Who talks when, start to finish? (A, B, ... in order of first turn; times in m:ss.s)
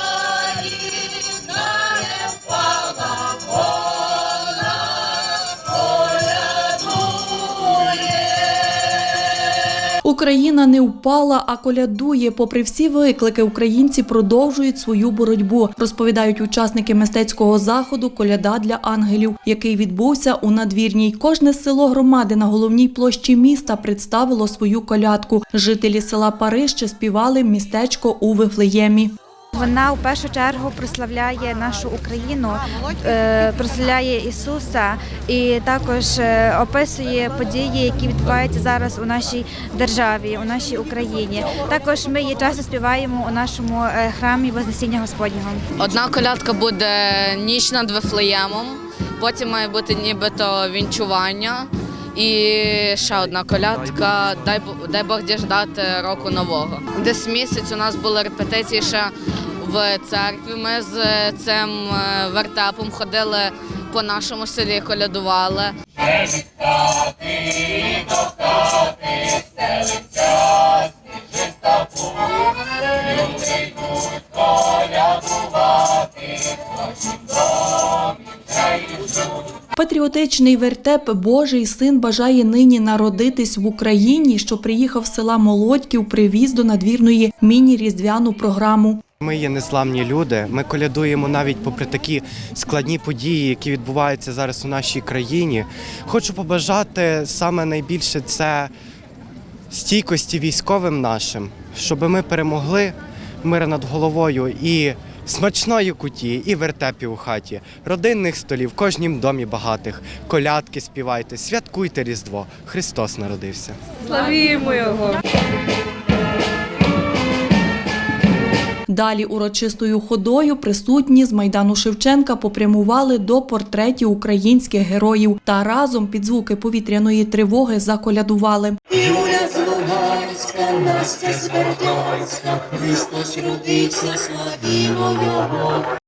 0:00.5-0:00.8 A
0:03.1-0:03.4 A
0:10.0-0:29.1 B
0:29.5-0:45.7 C
0:45.8-1:10.0 A
1:14.7-1:15.4 A
1:19.7-1:29.0 B
1:29.2-1:38.7 D
1:39.7-1:53.8 D
1:54.1-1:55.2 E
1:54.2-1:54.9 A
1:58.9-2:08.8 B
2:08.9-2:15.9 E